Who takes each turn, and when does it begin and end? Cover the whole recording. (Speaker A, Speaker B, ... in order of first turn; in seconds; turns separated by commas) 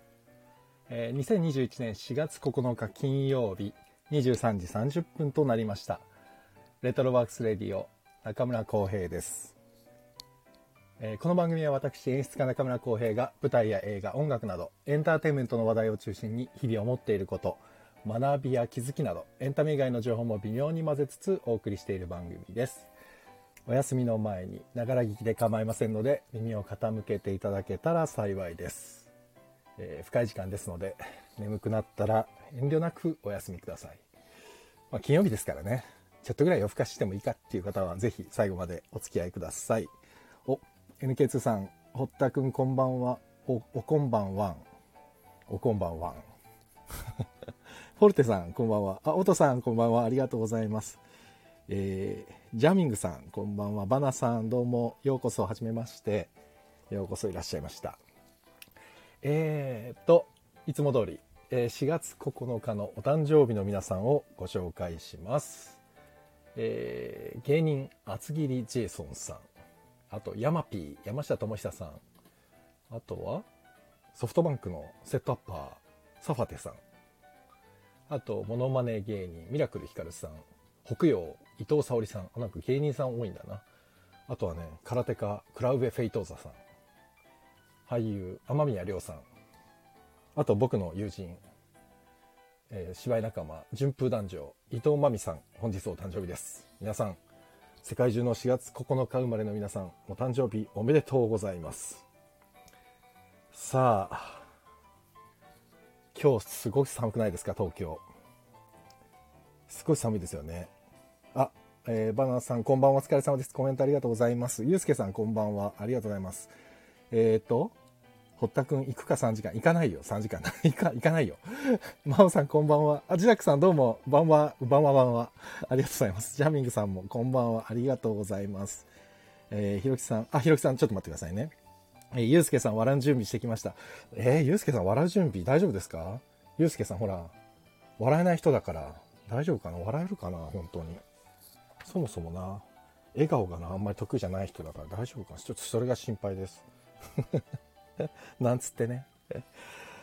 Speaker A: 0.9-6.0, Speaker A: 6.8-9.6, Speaker A: 11.0-22.9, Speaker A: 23.7-29.1, Speaker A: 29.8-34.0, Speaker A: 34.9-39.9, Speaker A: 40.5-44.6, Speaker A: 45.5-46.2, Speaker A: 48.0-51.0, Speaker A: 51.7-56.3, Speaker A: 56.9-58.0, Speaker A: 59.2-65.8, Speaker A: 66.5-69.5, Speaker A: 70.1-72.0, Speaker A: 72.9-73.5, Speaker A: 74.2-76.8, Speaker A: 78.1-83.6, Speaker A: 84.3-86.6, Speaker A: 87.9-89.2, Speaker A: 90.3-91.4, Speaker A: 92.7-97.2, Speaker A: 97.8-102.0, Speaker A: 103.5-104.4, Speaker A: 106.1-108.0, Speaker A: 109.7-110.7, Speaker A: 111.3-116.5, Speaker A: 117.1-117.8, Speaker A: 118.4-128.9, Speaker A: 129.5-131.5, Speaker A: 132.1-137.3, Speaker A: 138.0-141.0, Speaker A: 141.8-146.7, Speaker A: 147.2-147.4, Speaker A: 148.0-149.4